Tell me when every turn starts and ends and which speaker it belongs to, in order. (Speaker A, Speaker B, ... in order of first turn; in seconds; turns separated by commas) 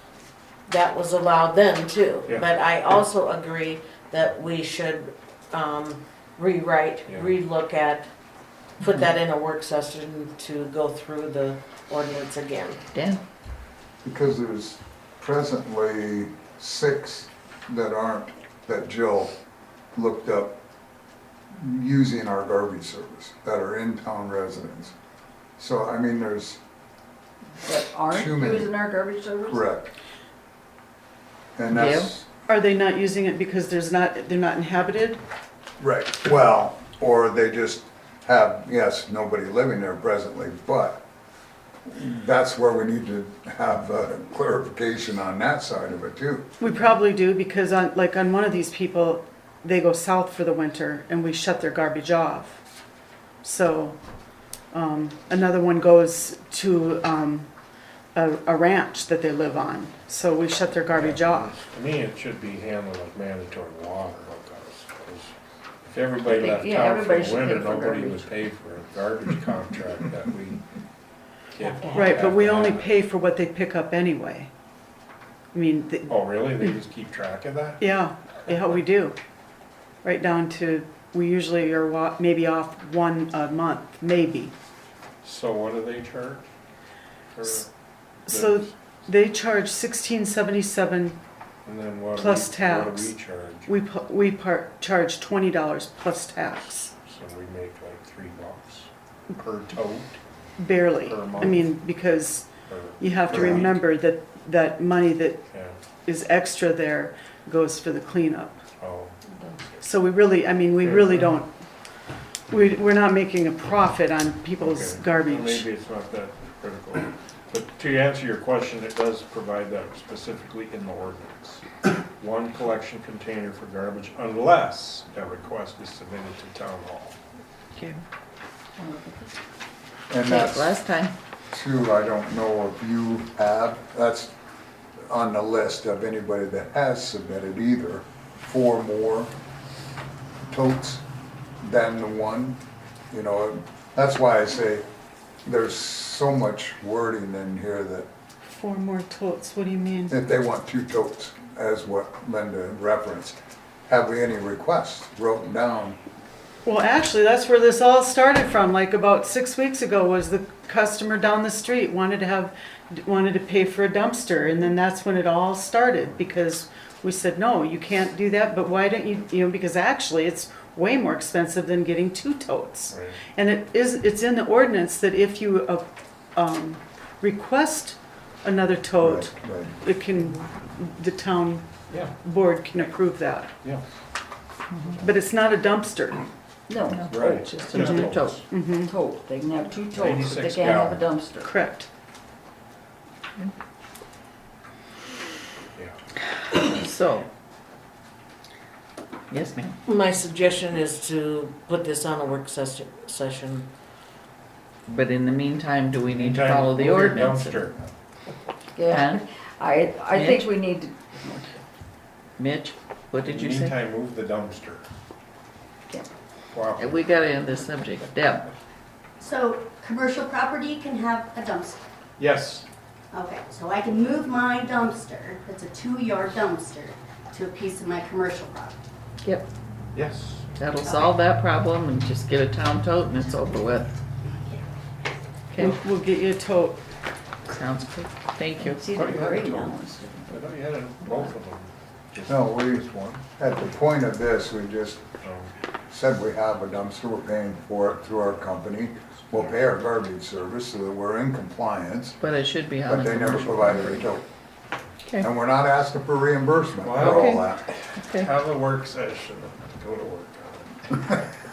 Speaker A: 0.7-8.1, Speaker B: 7.1-7.3, Speaker A: 8.8-12.8, Speaker C: 12.9-13.2, Speaker D: 14.0-19.3, Speaker D: 19.9-20.6, Speaker D: 21.5-24.9, Speaker D: 25.6-26.6, Speaker E: 27.6-29.6, Speaker D: 28.1-28.7, Speaker D: 29.5-29.9, Speaker D: 31.6-32.2, Speaker C: 31.7-32.1, Speaker F: 32.5-35.2, Speaker D: 35.8-41.0, Speaker D: 41.8-46.5, Speaker F: 46.6-52.6, Speaker F: 53.4-54.0, Speaker F: 54.7-57.5, Speaker F: 58.1-61.5, Speaker B: 60.9-65.3, Speaker B: 65.8-70.6, Speaker E: 66.2-68.3, Speaker B: 71.5-72.9, Speaker A: 71.7-72.2, Speaker F: 71.9-74.5, Speaker F: 75.5-76.3, Speaker B: 76.1-77.8, Speaker F: 77.8-79.2, Speaker F: 80.0-84.5, Speaker B: 85.2-86.4, Speaker B: 87.3-87.7, Speaker F: 88.3-91.2, Speaker B: 88.3-88.7, Speaker B: 91.7-93.8, Speaker F: 92.2-93.2, Speaker F: 93.7-96.9, Speaker B: 97.0-100.2, Speaker F: 100.6-105.5, Speaker B: 100.9-101.7, Speaker B: 102.7-103.7, Speaker D: 103.3-103.7, Speaker B: 105.5-105.8, Speaker F: 106.0-108.6, Speaker B: 108.8-109.2, Speaker F: 109.8-111.5, Speaker B: 110.8-111.4, Speaker F: 112.5-115.7, Speaker B: 114.6-121.7, Speaker B: 122.2-127.2, Speaker C: 127.8-128.0, Speaker E: 128.8-129.3, Speaker D: 130.1-130.8, Speaker C: 130.2-131.1, Speaker D: 131.5-134.3, Speaker D: 135.1-139.3, Speaker D: 140.5-141.0, Speaker D: 141.6-144.8, Speaker D: 145.4-148.1, Speaker F: 148.4-150.2, Speaker D: 150.1-156.0, Speaker F: 156.7-181.7, Speaker B: 172.9-173.2, Speaker D: 179.0-179.7, Speaker F: 182.2-183.5, Speaker C: 184.7-185.0, Speaker F: 185.0-186.3, Speaker E: 186.7-187.0, Speaker C: 186.9-188.4, Speaker B: 187.0-188.4, Speaker F: 187.7-188.9, Speaker E: 188.8-191.5, Speaker B: 189.9-191.0, Speaker F: 191.4-191.9, Speaker C: 196.5-197.3, Speaker C: 199.3-199.8, Speaker A: 199.9-203.7, Speaker C: 204.9-207.7, Speaker B: 206.1-207.9, Speaker E: 208.8-211.6, Speaker C: 208.8-209.2, Speaker C: 210.1-210.5, Speaker C: 212.4-213.8, Speaker B: 213.2-214.9, Speaker B: 216.5-217.0, Speaker C: 216.8-218.5, Speaker G: 219.2-221.8, Speaker B: 222.2-222.7, Speaker G: 223.1-228.8, Speaker C: 229.2-229.5, Speaker B: 229.9-230.4, Speaker C: 230.6-234.0, Speaker C: 235.5-235.8, Speaker F: 235.6-236.8, Speaker C: 237.5-238.9, Speaker E: 238.7-240.4, Speaker B: 238.9-243.2, Speaker D: 242.3-245.0, Speaker B: 245.2-245.5, Speaker D: 245.9-252.2, Speaker C: 252.2-254.1, Speaker D: 252.9-254.2, Speaker D: 255.2-257.6, Speaker B: 256.8-261.2, Speaker C: 257.0-258.3